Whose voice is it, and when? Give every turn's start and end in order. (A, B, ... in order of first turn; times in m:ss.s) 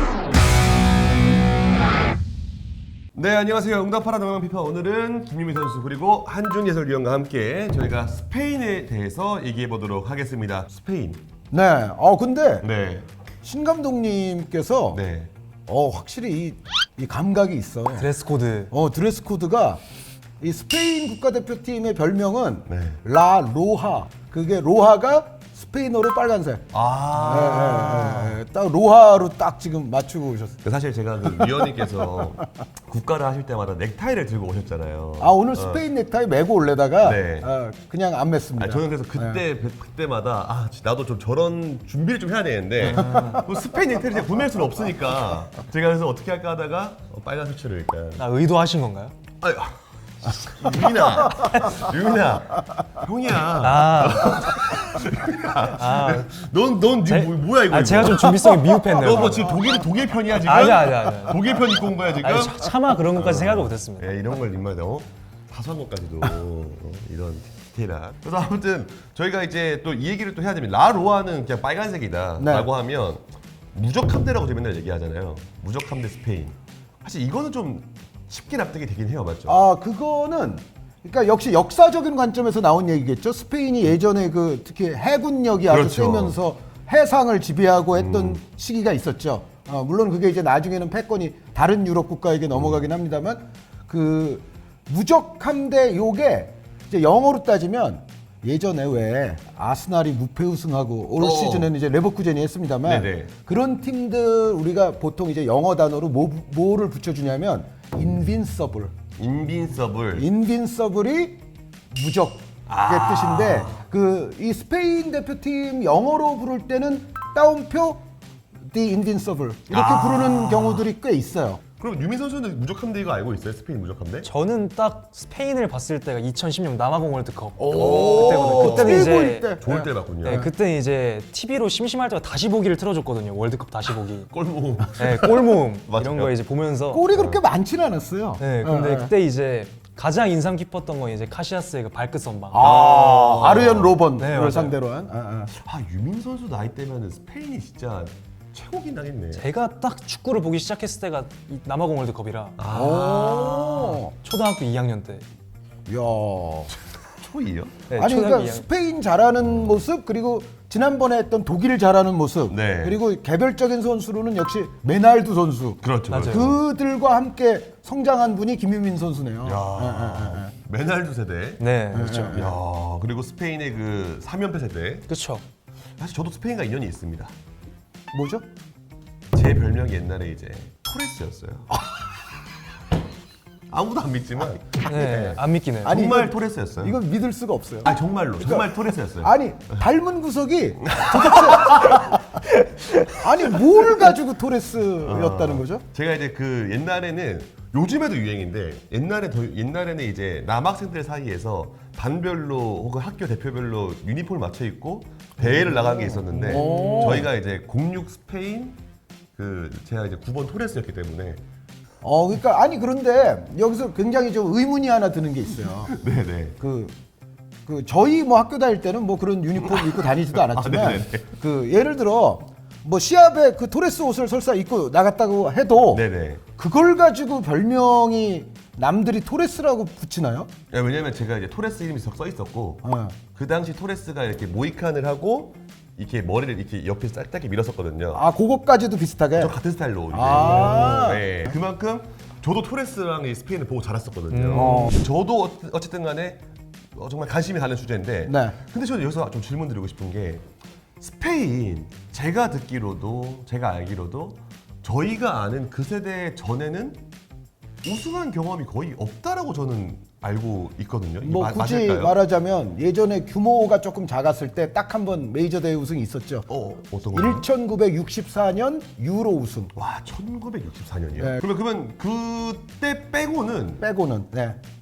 0:03.1-0:11.2 A
0:11.5-0:12.7 B
0:12.6-0:13.1 A
0:13.4-0:15.0 B
0:14.9-0:15.3 A
0:15.7-0:18.1 B
0:17.9-0:18.7 C
0:18.7-0:19.8 B
0:20.4-0:30.6 B
0:22.7-0:23.0 A
0:26.7-0:28.4 A
0:30.6-0:35.8 A
0:35.2-0:39.4 B
0:37.0-0:37.5 A
0:38.6-0:48.3 A
0:42.8-0:43.5 C
0:48.2-0:49.1 C
0:49.4-1:19.6 A
0:53.6-0:54.5 C
0:55.8-0:56.3 C
0:57.1-0:59.6 C
1:00.4-1:01.5 C
1:02.2-1:04.2 C
1:12.4-1:12.7 B
1:19.5-1:48.9 B
1:25.7-1:26.4 A
1:27.9-1:28.4 A
1:41.2-1:41.7 A
1:42.8-1:43.3 A
1:49.2-1:50.3 A
1:50.2-1:51.4 B
1:51.9-1:58.0 B
1:52.7-1:53.8 A
1:58.7-2:01.6 B
1:59.7-2:00.9 A
2:01.8-2:04.3 A
2:04.2-2:09.6 C
2:07.6-2:10.5 B
2:07.7-2:10.5 A
2:10.2-2:14.3 C
2:14.3-2:16.4 A
2:15.0-2:17.1 C
2:16.9-2:19.1 B
2:17.1-2:17.4 A
2:18.4-2:22.7 C
2:22.5-2:25.5 B
2:22.6-2:24.1 A
2:24.2-2:24.8 C
2:25.5-2:29.5 A
2:29.3-2:33.1 C
2:32.6-2:34.0 A
2:32.7-2:34.1 B
2:33.6-2:35.2 C
2:35.9-2:36.7 B
2:37.2-2:37.8 A
2:37.9-2:38.6 C
2:38.0-2:50.5 B
2:42.5-2:43.0 A
2:45.8-2:46.6 A
2:46.1-2:46.5 C
2:49.4-2:51.6 A
2:51.6-2:52.5 C
2:51.9-2:52.6 B
2:52.3-2:55.1 A
2:55.1-2:55.4 C
2:56.0-2:57.3 A
2:58.1-2:58.4 B
2:59.3-3:01.8 A
3:03.7-3:07.0 A
3:04.8-3:06.0 C
3:05.8-3:12.2 B
3:07.8-3:09.9 A
3:10.8-3:12.0 A
3:12.1-3:14.0 C
3:13.1-3:15.8 B
3:15.0-3:28.8 A
3:25.4-3:27.3 B
3:26.4-3:27.3 C
3:29.4-3:31.4 A
3:32.0-3:36.0 B
3:35.9-3:36.6 A
3:36.6-3:37.0 B
3:37.7-3:46.0 B
3:39.6-3:41.3 A
3:45.9-3:46.4 A
3:46.6-3:50.5 B
3:50.7-3:58.2 A
3:52.8-3:53.2 B
3:58.1-3:59.6 B
3:59.4-4:06.4 A
4:00.1-4:01.5 B
4:04.3-4:05.0 C
4:04.5-4:05.0 B
4:06.9-4:10.4 A
4:08.3-4:08.6 B
4:11.0-4:17.0 A
4:17.8-4:22.2 A
4:21.2-4:26.5 B
4:26.5-4:27.5 A
4:27.1-4:29.7 B
4:29.7-4:33.8 A
4:33.8-4:34.6 B